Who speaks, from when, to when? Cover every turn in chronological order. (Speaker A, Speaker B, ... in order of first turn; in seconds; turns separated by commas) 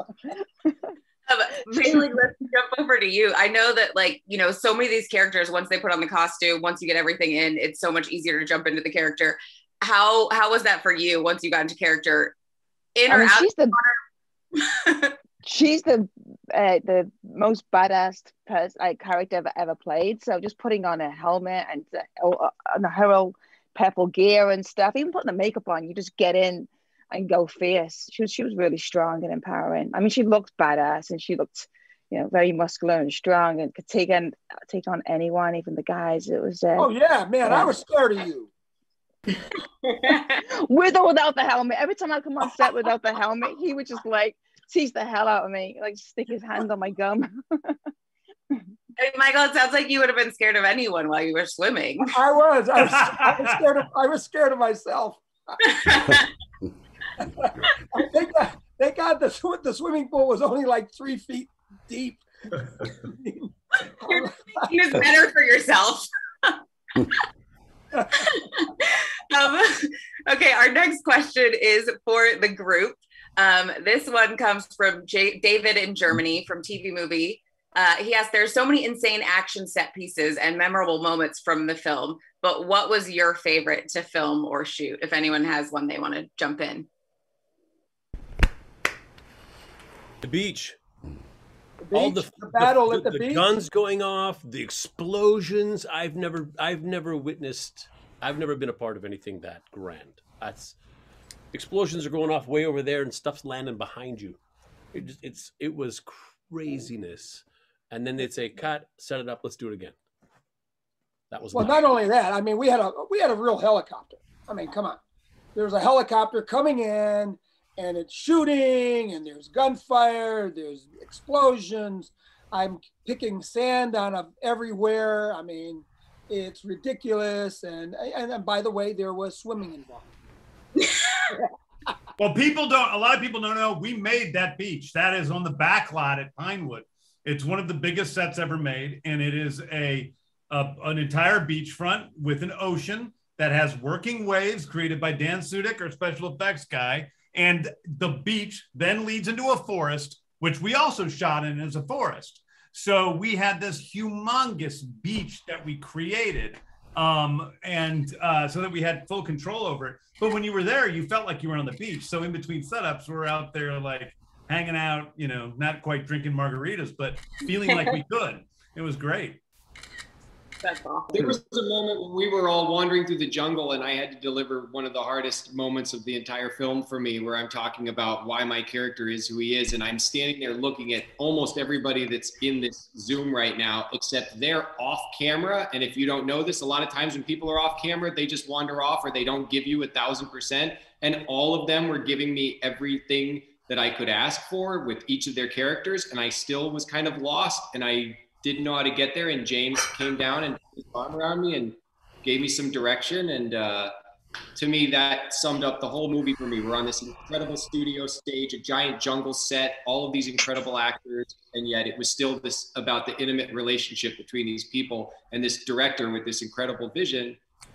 Speaker A: 1.3-12.3, Speaker A: 12.9-14.0, Speaker B: 13.1-13.8, Speaker A: 14.6-15.1, Speaker B: 15.4-36.9, Speaker C: 36.8-38.5, Speaker B: 37.5-37.7, Speaker B: 40.4-47.7, Speaker A: 49.0-52.1, Speaker C: 52.0-55.7, Speaker D: 52.8-53.6, Speaker A: 55.6-56.3, Speaker C: 57.2-63.5, Speaker C: 64.0-64.7, Speaker A: 64.1-66.5, Speaker C: 67.9-68.4, Speaker A: 68.2-86.9, Speaker E: 90.2-90.8, Speaker C: 91.8-93.5, Speaker E: 91.9-100.8, Speaker E: 101.5-104.4, Speaker E: 104.9-109.9, Speaker E: 111.3-111.9, Speaker C: 111.5-115.0, Speaker C: 115.5-130.1, Speaker D: 132.2-169.4, Speaker A: 170.6-171.4, Speaker F: 171.1-203.9, Speaker F: 204.5-217.4